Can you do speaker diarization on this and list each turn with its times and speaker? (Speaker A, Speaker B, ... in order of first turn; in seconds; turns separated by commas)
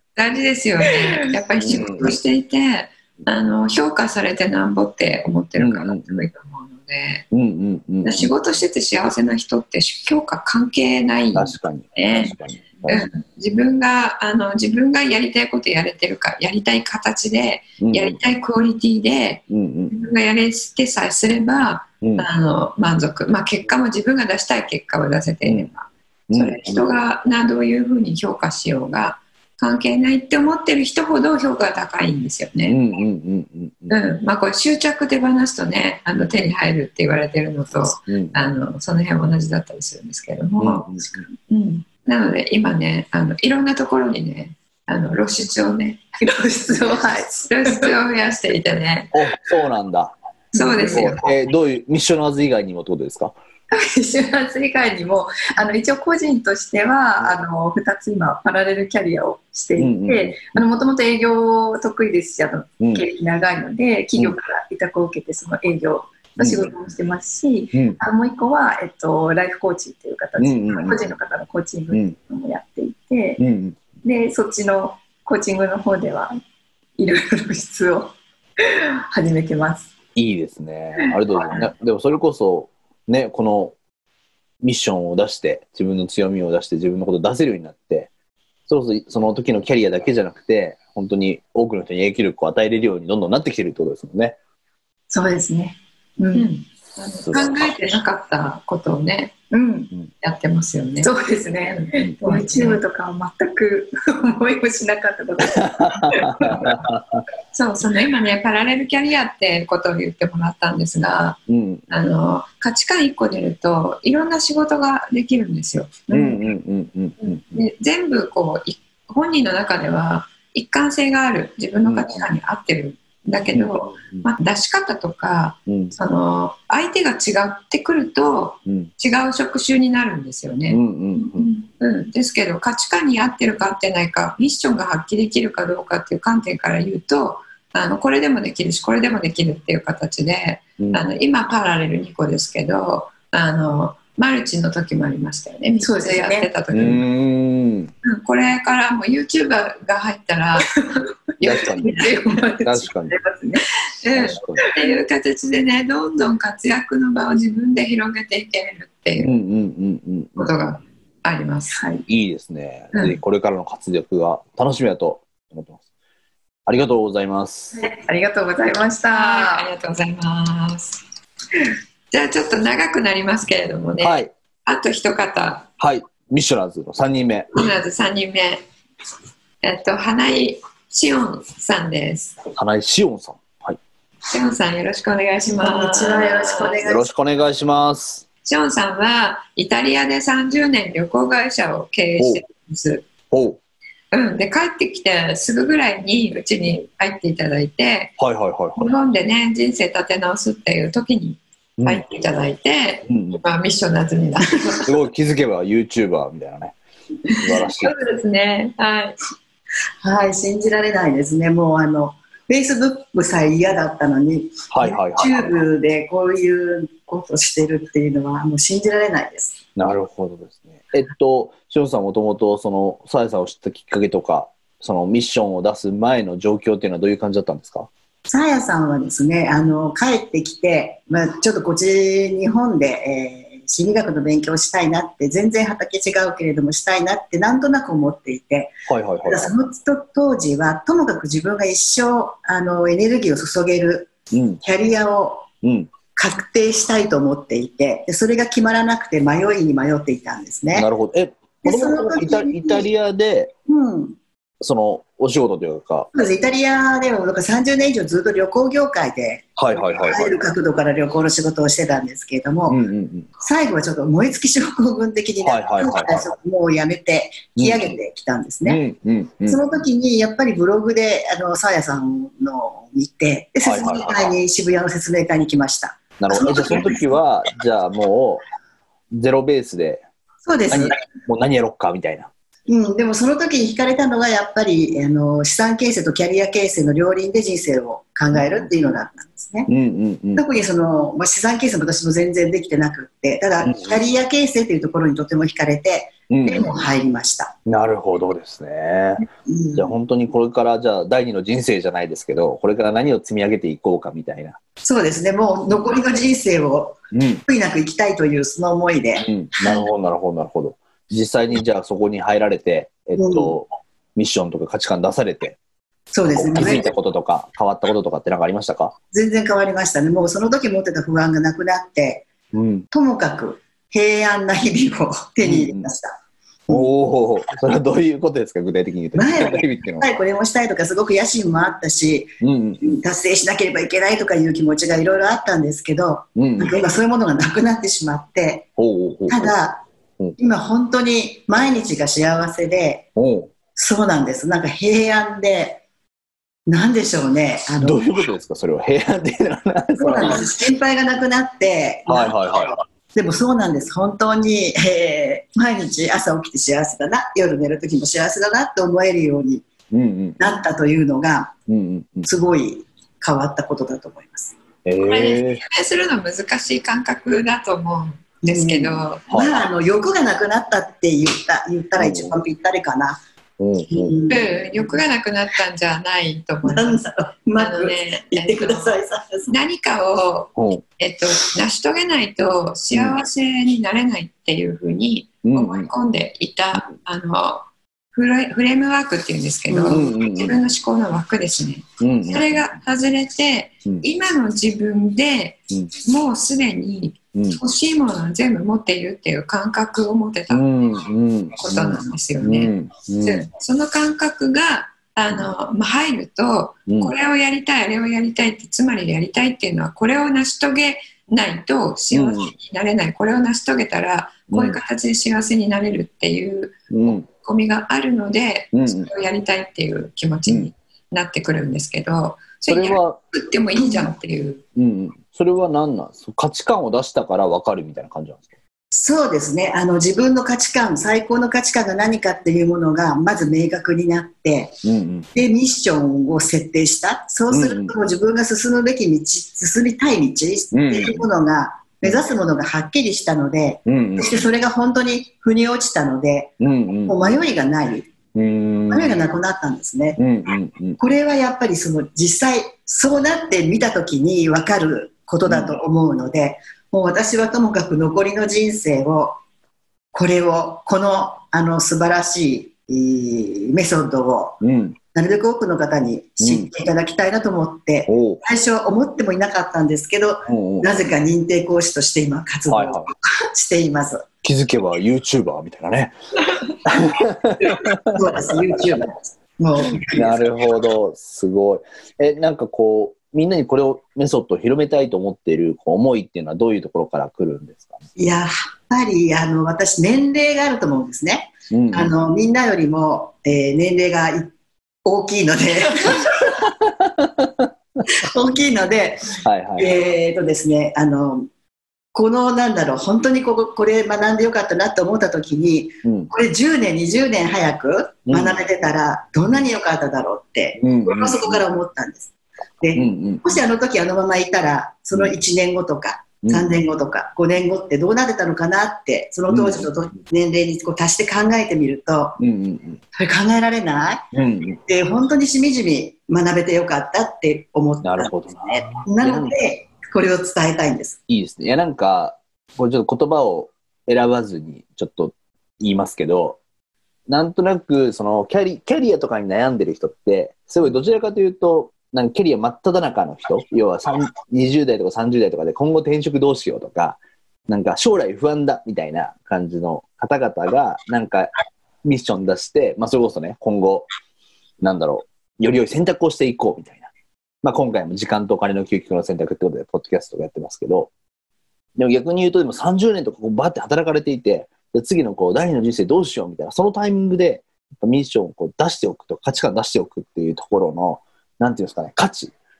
Speaker A: 0.1-7.2, Speaker B: 1.6-2.2, Speaker B: 5.6-6.3, Speaker B: 7.3-8.3, Speaker A: 8.0-32.8, Speaker B: 11.3-13.1, Speaker B: 17.8-18.2, Speaker B: 19.5-19.9, Speaker B: 22.0-22.3, Speaker B: 25.4-25.7, Speaker B: 26.3-26.9, Speaker B: 32.6-33.9, Speaker A: 33.9-40.9, Speaker B: 37.8-38.4, Speaker B: 40.6-41.2, Speaker A: 41.5-46.0, Speaker C: 46.2-47.9, Speaker A: 47.4-49.1, Speaker B: 49.1-50.1, Speaker C: 50.5-51.1, Speaker A: 50.5-51.3, Speaker B: 50.8-53.3, Speaker C: 53.7-73.4, Speaker B: 59.8-60.4, Speaker B: 62.8-63.0, Speaker B: 66.4-66.7, Speaker B: 67.7-68.0, Speaker B: 70.4-71.1, Speaker B: 73.4-73.8, Speaker C: 74.0-76.4, Speaker C: 77.0-79.9, Speaker B: 80.2-83.7, Speaker B: 84.6-88.1, Speaker B: 88.7-94.3, Speaker C: 95.1-96.5, Speaker A: 96.3-99.3, Speaker B: 97.2-97.7, Speaker C: 99.5-99.9, Speaker A: 100.2-101.1, Speaker C: 101.0-106.7, Speaker A: 101.9-102.8, Speaker B: 105.8-107.2, Speaker A: 107.5-116.3, Speaker B: 111.5-111.8, Speaker B: 116.1-117.6, Speaker A: 117.2-147.1, Speaker B: 121.8-122.3, Speaker B: 123.5-124.3, Speaker B: 125.7-125.9, Speaker B: 130.7-131.5, Speaker B: 140.8-141.0, Speaker C: 145.8-146.5, Speaker B: 146.7-147.9, Speaker A: 148.0-150.8, Speaker A: 151.4-152.2, Speaker B: 151.4-152.0, Speaker C: 151.8-153.7, Speaker B: 152.6-153.2, Speaker A: 154.0-159.3, Speaker B: 154.1-154.6, Speaker B: 159.2-160.5, Speaker A: 160.4-161.8, Speaker C: 161.7-162.0, Speaker B: 162.1-165.8, Speaker A: 162.9-163.2, Speaker B: 166.7-167.8, Speaker C: 167.8-169.7, Speaker A: 169.1-171.0, Speaker A: 172.1-175.7, Speaker B: 174.0-174.3, Speaker B: 175.8-177.5, Speaker A: 177.5-178.6, Speaker A: 179.6-182.4, Speaker B: 182.6-183.8, Speaker A: 184.3-186.8, Speaker D: 185.6-187.0, Speaker B: 186.8-188.2, Speaker A: 188.4-193.1, Speaker B: 192.2-192.4, Speaker B: 193.3-193.6, Speaker A: 194.1-198.2, Speaker B: 198.2-198.9, Speaker A: 198.8-204.9, Speaker B: 201.8-202.0, Speaker B: 203.1-203.4, Speaker B: 204.8-206.8, Speaker A: 207.3-209.2, Speaker B: 207.4-207.9, Speaker D: 210.0-219.6, Speaker B: 214.7-215.7, Speaker B: 219.8-227.9, Speaker D: 228.3-244.1, Speaker B: 238.9-239.5, Speaker B: 244.3-244.6, Speaker D: 244.6-245.5, Speaker B: 245.6-245.9, Speaker D: 246.1-250.9, Speaker B: 250.7-253.5, Speaker D: 251.6-252.9, Speaker D: 253.7-254.2, Speaker B: 254.6-256.1, Speaker D: 256.1-262.8, Speaker B: 259.6-260.4, Speaker B: 262.7-263.3, Speaker D: 263.4-268.8, Speaker B: 265.4-266.3, Speaker B: 267.6-268.0, Speaker B: 268.6-269.6, Speaker D: 269.4-277.0, Speaker B: 273.6-274.3, Speaker B: 276.2-278.4, Speaker B: 279.1-280.0, Speaker D: 280.4-281.0, Speaker B: 280.7-282.3, Speaker D: 282.7-289.7, Speaker B: 288.3-288.7, Speaker B: 289.7-290.4, Speaker D: 290.3-297.5, Speaker B: 293.6-294.0, Speaker B: 296.3-296.7, Speaker B: 297.6-304.6, Speaker D: 299.4-299.9, Speaker D: 304.8-309.7, Speaker B: 305.7-305.9, Speaker B: 307.1-307.4, Speaker B: 309.2-315.6, Speaker D: 313.2-313.5, Speaker D: 316.1-316.9, Speaker B: 316.3-318.9, Speaker D: 319.1-322.3, Speaker B: 322.5-322.9, Speaker D: 322.9-326.2, Speaker B: 325.4-325.9, Speaker B: 326.7-330.1, Speaker D: 329.1-338.7, Speaker B: 332.4-333.0, Speaker B: 336.4-336.7, Speaker B: 338.8-339.5, Speaker D: 339.3-339.8, Speaker D: 340.4-343.1, Speaker B: 343.1-343.5, Speaker D: 343.7-345.8, Speaker D: 346.7-348.0, Speaker B: 347.8-350.5, Speaker D: 350.0-359.7, Speaker B: 352.1-352.8, Speaker B: 359.9-360.4, Speaker D: 360.4-361.5, Speaker B: 361.7-362.3, Speaker D: 362.2-364.5, Speaker B: 364.8-365.6, Speaker A: 365.0-369.2, Speaker D: 368.4-373.2, Speaker B: 369.3-369.7, Speaker B: 372.0-372.4, Speaker B: 373.6-374.2, Speaker D: 373.9-374.8, Speaker A: 374.3-377.0, Speaker D: 376.6-379.5, Speaker A: 377.6-400.7, Speaker B: 380.6-380.8, Speaker B: 382.9-383.2, Speaker B: 385.4-385.9, Speaker B: 389.8-390.6, Speaker B: 392.0-392.6, Speaker B: 397.3-397.6, Speaker B: 400.5-403.5, Speaker A: 401.6-424.6, Speaker B: 406.9-407.1, Speaker B: 412.1-412.5, Speaker B: 414.5-414.8, Speaker B: 416.9-417.2, Speaker B: 418.7-419.1, Speaker B: 422.7-423.2, Speaker B: 424.8-428.5, Speaker D: 428.9-434.8, Speaker B: 434.8-435.3, Speaker D: 435.3-448.1, Speaker B: 437.5-437.9, Speaker B: 440.7-441.3, Speaker B: 443.9-444.3, Speaker B: 446.6-447.2, Speaker B: 448.3-449.2, Speaker D: 448.9-450.2, Speaker B: 450.2-451.0, Speaker D: 451.0-459.4, Speaker B: 455.4-455.8, Speaker D: 460.1-464.6, Speaker B: 464.6-465.0, Speaker D: 465.1-474.3, Speaker B: 466.4-466.7, Speaker B: 468.1-468.4, Speaker B: 470.4-471.0, Speaker B: 472.7-473.1, Speaker B: 474.4-476.1, Speaker B: 476.8-478.9, Speaker D: 478.1-480.5, Speaker B: 480.1-488.0, Speaker D: 488.2-494.5, Speaker B: 491.7-492.1, Speaker D: 495.0-496.3, Speaker B: 496.6-497.7, Speaker D: 498.2-501.5, Speaker B: 499.4-499.9, Speaker D: 502.1-522.4, Speaker B: 506.0-506.3, Speaker B: 508.3-508.6, Speaker B: 510.8-511.6, Speaker B: 512.9-513.5, Speaker B: 516.4-516.7, Speaker B: 519.5-519.9, Speaker B: 522.4-523.0, Speaker D: 523.1-524.2, Speaker B: 524.3-524.8, Speaker D: 524.9-531.2, Speaker B: 528.0-529.6, Speaker B: 531.3-536.6, Speaker B: 537.3-551.5, Speaker B: 552.0-554.1, Speaker B: 554.8-557.1, Speaker B: 557.6-561.1, Speaker B: 562.0-572.5